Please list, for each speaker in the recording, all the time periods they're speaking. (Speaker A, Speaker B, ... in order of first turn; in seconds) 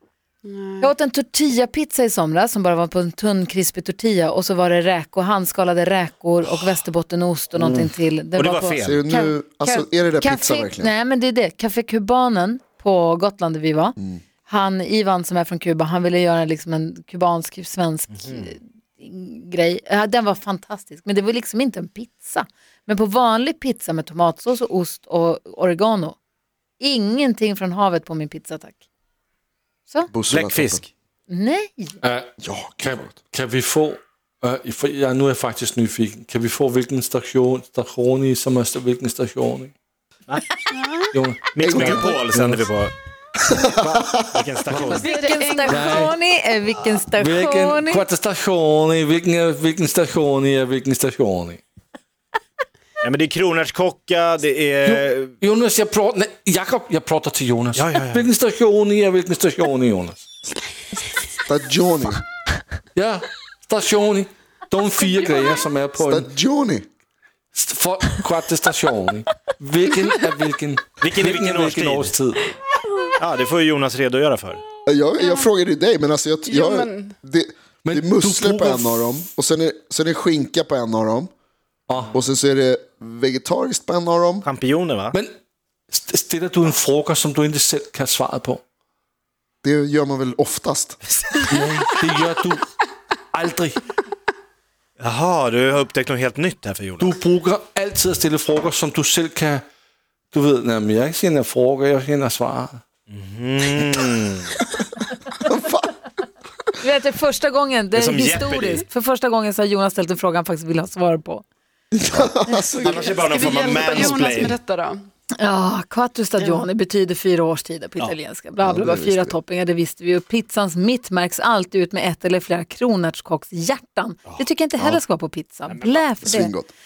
Speaker A: 0.4-0.9, 40.7-41.1, 44.8-46.1, 76.5-77.2, 112.5-115.1, 116.4-116.7
Speaker B: 0.8-26.2, 26.8-28.8, 31.3-32.0, 44.9-48.1, 106.8-111.5, 115.4-126.5
Speaker C: 7.6-7.9, 8.8-10.9, 14.0-14.2, 30.1-30.8, 32.4-33.2, 41.6-42.2, 43.5-44.0, 61.5-62.2, 66.0-66.9, 74.9-81.3, 82.1-84.5, 89.6-91.0, 105.4-105.9, 111.9-113.2, 118.6-119.4, 126.2-126.7
Speaker D: 8.3-9.0, 18.1-18.5, 30.3-30.9, 41.5-42.9, 44.3-45.1, 53.0-55.3, 57.7-58.3, 71.0-72.2, 73.2-74.6, 84.4-85.2, 91.2-91.6, 95.0-97.2, 103.1-104.6, 108.0-108.8, 112.8-114.6, 125.7-126.1
Speaker E: 32.0-39.7, 41.1-42.6, 43.7-45.0, 45.7-46.1, 47.1-51.6, 54.9-60.3, 63.0-66.3, 67.5-72.5, 77.8-79.2, 81.9-82.2, 85.9-88.6, 91.5-92.7, 93.3-93.8, 97.0-99.7, 100.3-102.8